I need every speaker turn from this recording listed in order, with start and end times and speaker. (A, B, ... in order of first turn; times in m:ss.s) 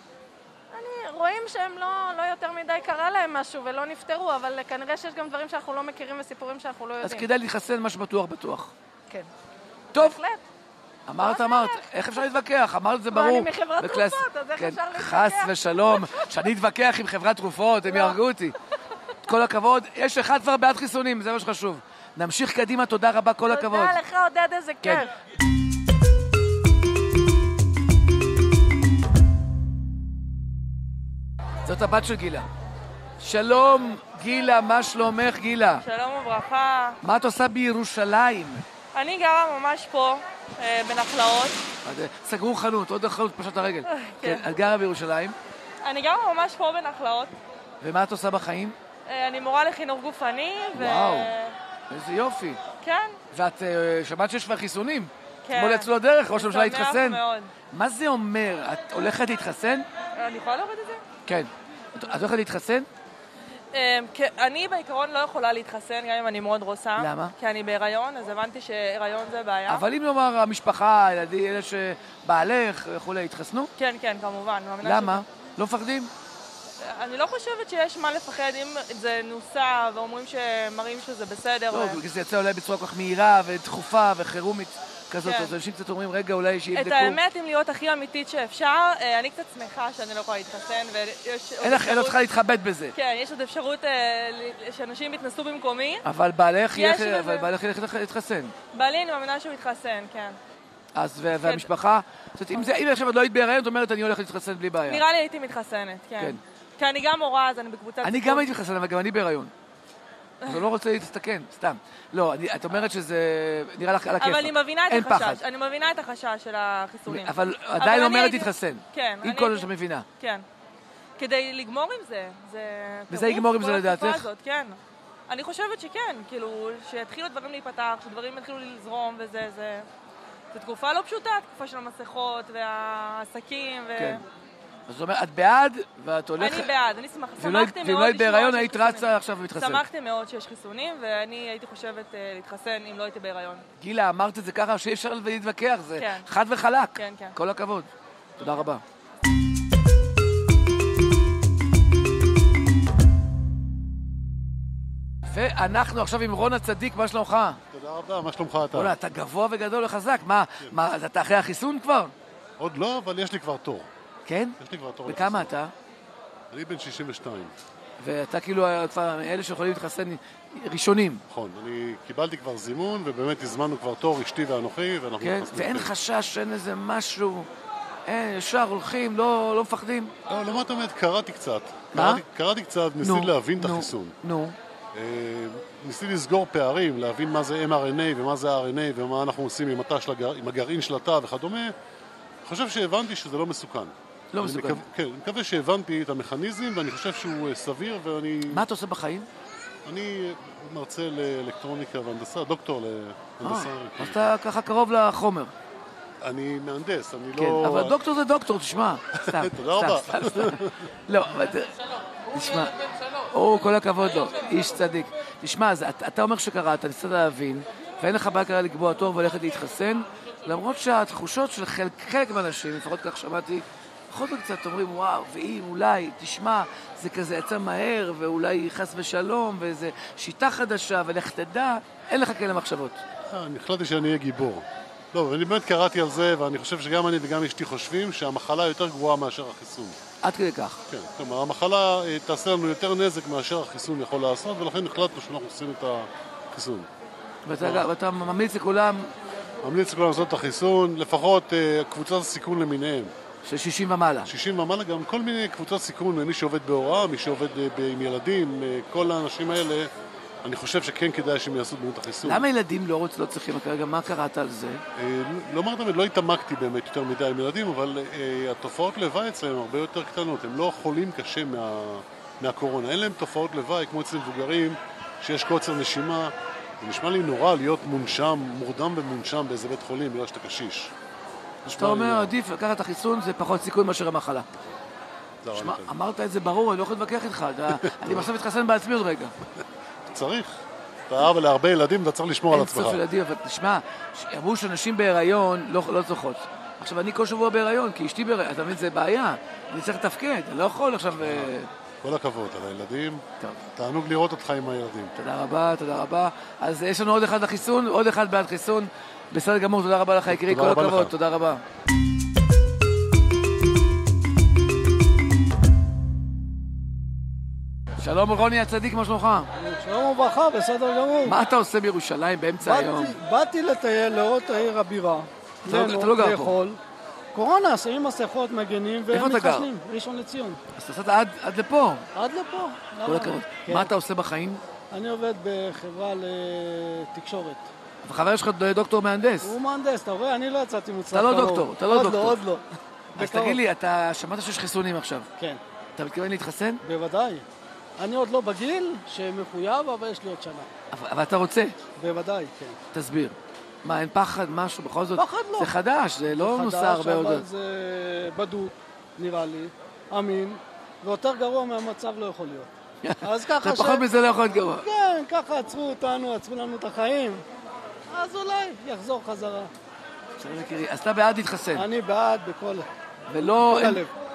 0:00.7-0:07.3 A
0:07.0-0:08.7 B
0:09.9-0:10.4 A
0:11.1-0:18.5 B
0:11.2-0:11.8 A
0:13.1-0:16.4 A
0:17.9-0:18.2 A
0:19.2-0:24.0 B
0:23.5-0:25.1 A
0:31.6-0:32.5 B
0:33.2-0:35.8 B
0:35.8-0:37.0 C
0:37.0-0:38.6 B
0:38.9-0:41.6 C
0:41.8-0:45.4 B
0:43.9-0:44.4 C
0:45.8-0:47.3 C
0:47.8-0:48.8 B
0:49.1-0:51.5 C
0:50.7-0:51.3 B
0:51.9-0:52.6 B
0:52.8-0:53.2 C
0:53.3-0:57.2 B
0:55.4-0:57.5 C
0:57.7-0:59.8 B
1:00.2-1:01.0 C
1:01.2-1:02.9 B
1:03.7-1:09.8 C
1:07.0-1:07.3 B
1:09.7-1:13.7 B
1:13.8-1:15.2 C
1:14.8-1:16.1 B
1:16.8-1:22.0 C
1:21.7-1:27.2 B
1:25.2-1:25.5 C
1:26.7-1:32.2 C
1:31.6-1:32.9 B
1:32.9-1:36.0 C
1:36.0-1:38.5 B
1:36.8-1:37.5 C
1:38.7-1:40.4 C
1:40.9-1:45.0 B
1:44.8-1:48.5 C
1:48.0-1:49.5 B
1:50.4-1:55.4 B
1:54.2-2:00.4 C
1:57.1-2:00.1 B
2:01.2-2:09.9 C
2:03.1-2:04.2 B
2:10.5-2:14.2 C
2:14.0-2:14.2 B
2:14.9-2:16.7 B
2:16.4-2:23.6 C
2:17.4-2:19.8 B
2:23.8-2:28.8 B
2:26.0-2:26.2 C
2:27.0-2:27.3 C
2:35.3-2:37.6 B
2:37.7-2:39.0 D
2:38.7-2:42.1 B
2:42.6-2:43.9 D
2:44.2-2:45.7 B
2:44.6-2:45.5 D
2:46.5-2:47.5 D
2:48.0-2:51.2 B
2:51.3-2:55.9 D
2:55.2-2:57.5 B
2:58.1-3:00.1 B
3:00.3-3:04.2 D
3:01.9-3:02.2 B
3:03.0-3:04.6 B
3:04.9-3:11.7 D
3:12.4-3:18.6 D
3:14.3-3:14.8 B
3:18.5-3:19.3 B
3:19.8-3:24.3 D
3:23.4-3:25.5 B
3:26.2-3:27.9 D
3:27.4-3:31.7 B
3:29.2-3:30.8 D
3:32.3-3:32.7 B
3:33.3-3:53.0 B
3:53.3-4:00.0 D
4:00.2-4:00.8 B
4:00.9-4:06.9 D
4:07.4-4:09.1 B
4:07.6-4:07.9 D
4:09.6-4:13.1 D
4:13.4-4:14.3 B
4:14.2-4:19.9 D
4:20.4-4:22.4 D
4:22.2-4:24.8 B
4:25.0-4:40.9 D
4:41.6-4:42.3 D
4:41.8-4:44.4 B
4:45.4-4:45.9 D
4:45.5-4:49.3 B
4:47.7-4:48.3 D
4:50.1-4:53.0 D
4:52.5-5:01.7 B
5:01.2-5:03.2 D
5:03.8-5:05.1 D
5:05.2-5:11.6 B
5:10.3-5:11.1 D
5:18.0-5:19.5 B
5:19.6-5:21.4 E
5:21.2-5:23.2 B
5:22.6-5:26.8 E
5:25.6-5:26.6 B
5:27.3-5:30.6 E
5:29.1-5:29.7 B
5:30.8-5:32.1 B
5:32.1-5:33.9 E
5:33.0-5:34.6 B
5:34.9-5:37.7 E
5:38.0-5:39.5 B
5:39.4-5:42.6 E
5:41.1-5:42.4 B
5:43.2-5:43.6 E
5:43.2-5:45.3 B
5:46.0-5:46.8 B
5:46.8-5:47.4 E
5:48.0-5:50.7 E
5:50.9-5:51.7 B
5:52.0-5:52.8 E
5:52.9-5:57.4 B
5:55.2-5:55.7 E
5:56.3-6:02.7 E
6:03.0-6:04.8 B
6:03.2-6:04.1 E
6:04.6-6:07.4 E
6:08.1-6:09.7 E
6:10.4-6:11.9 B
6:11.7-6:12.9 E
6:13.3-6:14.0 B
6:13.4-6:14.1 E